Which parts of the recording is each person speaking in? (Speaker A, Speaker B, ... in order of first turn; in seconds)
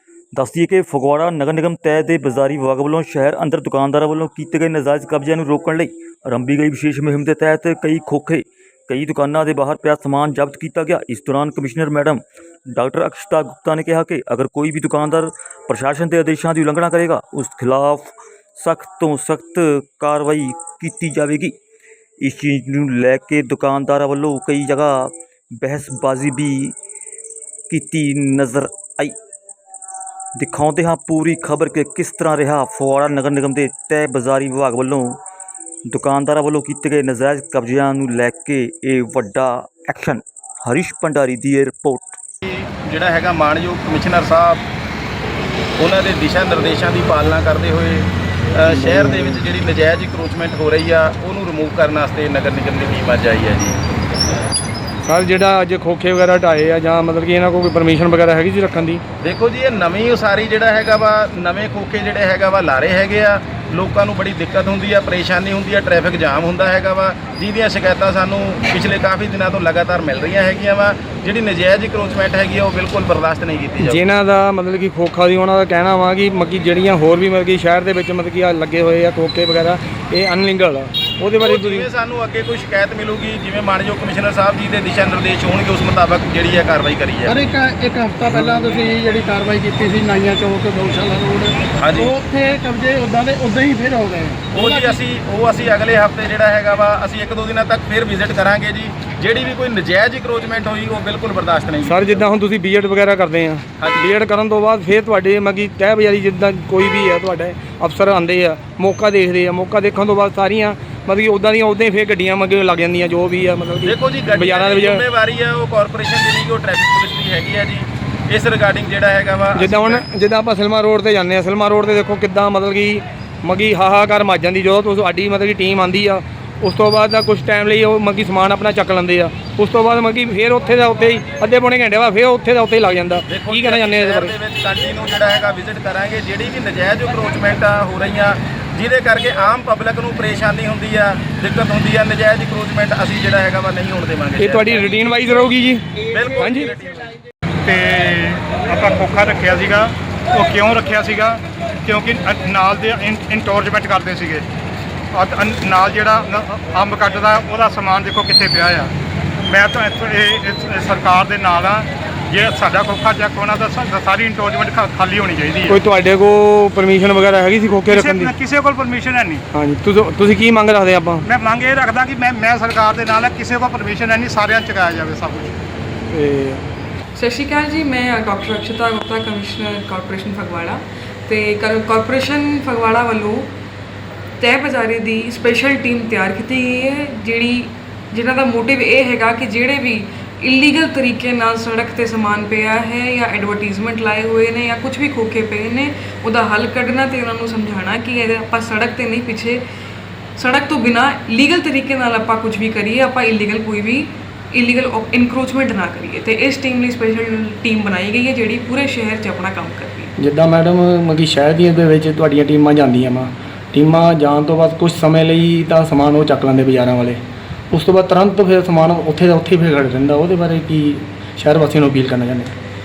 Speaker A: 0.3-21.5, 22.2-26.7, 27.7-29.1, 30.4-35.2, 35.9-42.2
Speaker B: 42.4-44.6, 45.8-53.8, 59.2-74.0, 81.4-87.4, 91.8-92.1, 94.5-102.3, 103.8-104.1, 113.8-120.0, 133.3-144.9, 146.0-147.1
Speaker C: 48.7-49.4, 55.0-59.0, 73.8-81.8, 88.3-88.8, 101.8-115.0, 119.5-134.3, 144.4-146.7, 165.7-168.3, 169.5-171.2, 176.1-176.6, 210.2-217.2, 217.7-222.5
Speaker D: 87.7-88.2, 89.4-90.2, 90.8-91.6, 92.2-92.8
Speaker E: 147.6-154.4, 155.1-158.9, 159.5-165.8, 167.9-169.4, 171.2-175.5
Speaker F: 177.1-183.5, 184.4-199.6, 200.3-210.1